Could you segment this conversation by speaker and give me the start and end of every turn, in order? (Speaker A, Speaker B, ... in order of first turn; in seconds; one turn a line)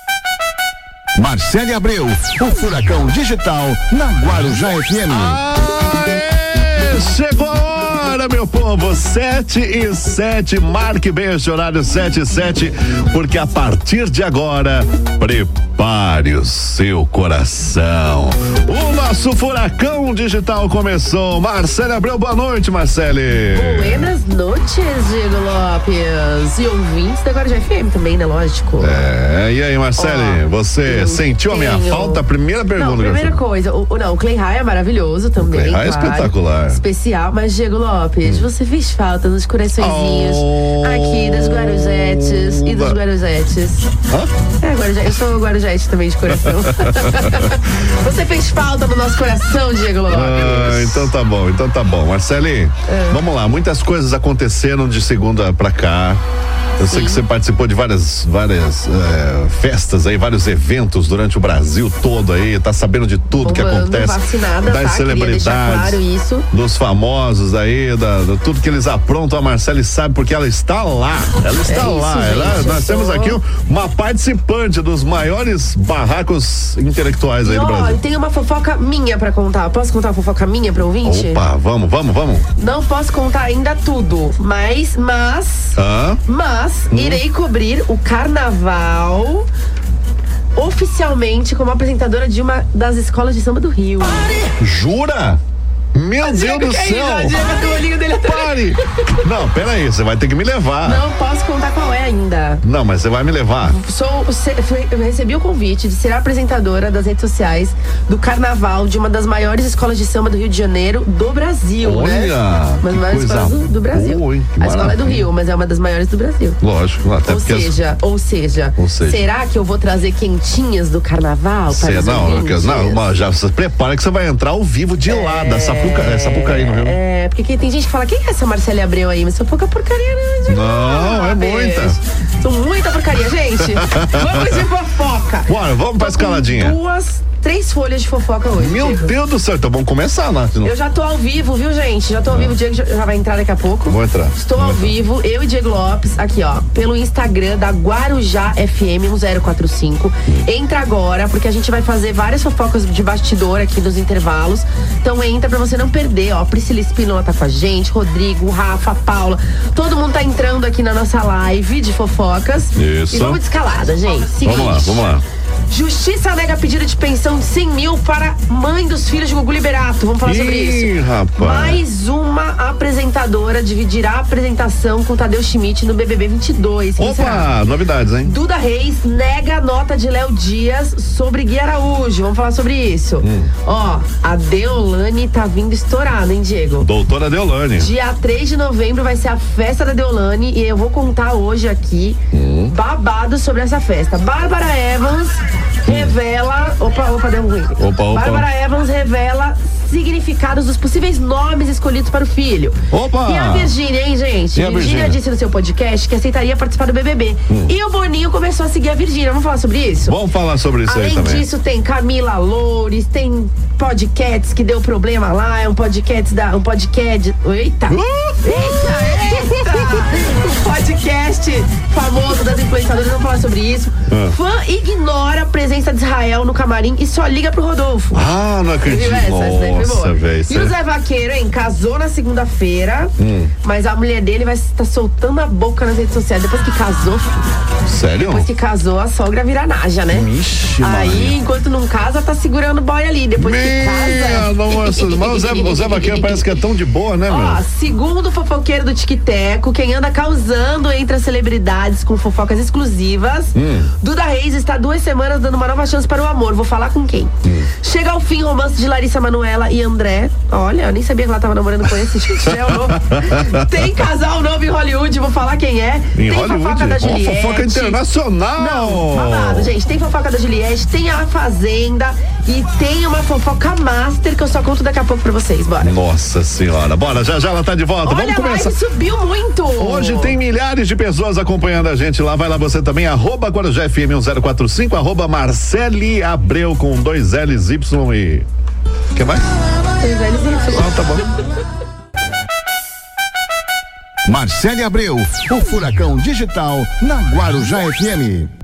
Speaker A: 1.1-5.4
Speaker B: 5.1-24.1
Speaker C: 23.5-29.0
Speaker B: 28.8-33.4
Speaker C: 30.0-32.2
Speaker C: 32.7-43.9
Speaker B: 35.4-36.8
Speaker B: 39.8-43.0
Speaker C: 44.6-51.1
Speaker B: 46.3-47.5
Speaker B: 50.1-56.2
Speaker C: 52.9-53.2
Speaker B: 56.8-78.0
Speaker C: 56.8-57.2
Speaker C: 63.4-66.5
Speaker C: 71.7-73.4
Speaker C: 77.4-81.4
Speaker B: 81.0-82.5
Speaker C: 82.5-89.5
Speaker B: 85.8-86.2
Speaker B: 86.9-87.2
Speaker C: 90.5-94.5
Speaker B: 94.6-95.4
Speaker B: 95.9-97.4
Speaker C: 96.2-99.2
Speaker B: 98.2-101.0
Speaker C: 100.8-102.6
Speaker B: 102.6-103.8
Speaker C: 103.7-116.6
Speaker B: 111.8-115.3
Speaker B: 116.6-117.7
Speaker C: 117.2-123.0
Speaker B: 118.8-119.2
Speaker B: 121.7-127.0
Speaker C: 125.0-139.1
Speaker B: 130.5-132.0
Speaker B: 133.6-134.7
Speaker B: 135.5-136.8
Speaker B: 138.5-140.7
Speaker C: 140.6-165.1
Speaker B: 143.8-144.9
Speaker B: 162.7-163.4
Speaker B: 164.4-165.2
Speaker C: 165.7-177.5
Speaker B: 170.2-171.8
Speaker B: 177.0-178.3
Speaker C: 178.2-186.9
Speaker B: 183.2-183.5
Speaker B: 186.8-187.9
Speaker C: 187.8-210.2
Speaker B: 192.3-192.7
Speaker B: 195.8-196.1
Speaker B: 197.8-198.5
Speaker B: 202.9-203.7
Speaker B: 204.5-205.2
Speaker B: 210.0-211.4
Speaker C: 210.8-228.2
Speaker B: 217.9-220.1
Speaker B: 224.1-224.3
Speaker B: 228.1-230.7
Speaker C: 228.8-237.5
Speaker B: 233.2-233.5
Speaker B: 237.8-238.5
Speaker C: 238.2-240.3
Speaker B: 240.1-241.4
Speaker C: 240.8-246.5
Speaker B: 243.3-247.6
Speaker C: 247.3-268.0
Speaker B: 253.5-253.9
Speaker B: 262.4-263.9
Speaker B: 266.1-269.7
Speaker C: 268.6-275.9
Speaker B: 275.8-278.7
Speaker C: 278.0-280.4
Speaker B: 279.8-288.5
Speaker B: 289.1-289.5
Speaker C: 290.0-291.0
Speaker B: 290.7-291.3
Speaker A: 294.2-298.5